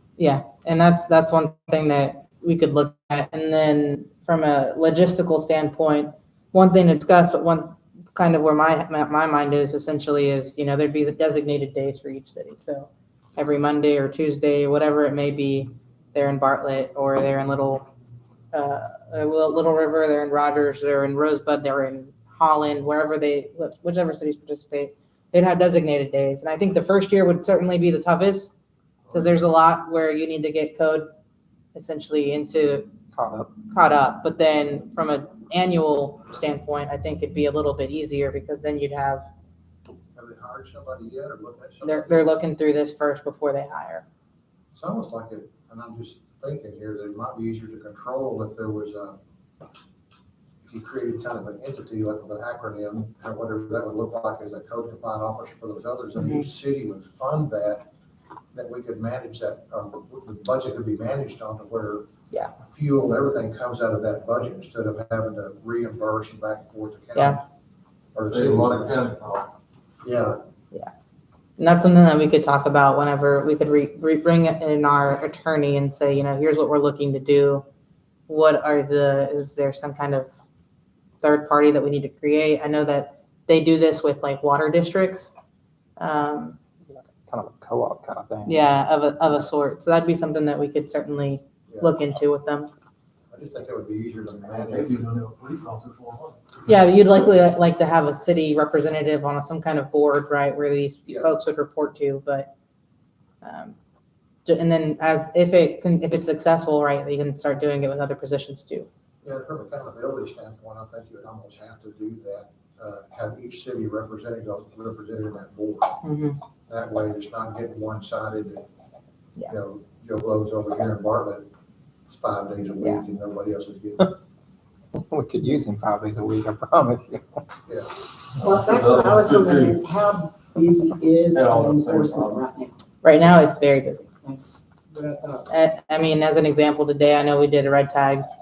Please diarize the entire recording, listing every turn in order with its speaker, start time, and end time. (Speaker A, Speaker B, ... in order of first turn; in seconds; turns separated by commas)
Speaker A: 0.2-17.9, Speaker A: 18.5-28.5, Speaker A: 29.1-31.1, Speaker A: 31.7-32.9, Speaker B: 33.1-33.5, Speaker A: 33.7-39.3, Speaker C: 40.1-42.2, Speaker A: 41.8-44.0, Speaker C: 44.7-49.2, Speaker C: 50.6-57.9, Speaker A: 56.2-56.4, Speaker C: 58.5-67.4, Speaker C: 68.1-69.0, Speaker D: 68.3-69.5, Speaker C: 70.0-70.4, Speaker A: 71.6-77.6, Speaker A: 78.3-80.3, Speaker A: 81.2-85.3, Speaker A: 86.0-86.6, Speaker B: 86.9-88.7, Speaker A: 88.5-92.7, Speaker C: 91.7-91.9, Speaker C: 93.3-95.0, Speaker D: 94.6-96.5, Speaker A: 96.7-102.5, Speaker A: 103.4-103.7, Speaker A: 104.5-108.9, Speaker C: 109.2-116.0, Speaker A: 116.0-116.4, Speaker C: 116.7-118.7, Speaker C: 119.5-121.5, Speaker C: 122.1-124.2, Speaker B: 124.9-127.4, Speaker D: 128.4-129.8, Speaker E: 128.4-132.8, Speaker D: 131.3-132.4, Speaker A: 133.0-134.1, Speaker E: 134.2-135.5, Speaker A: 135.5-138.2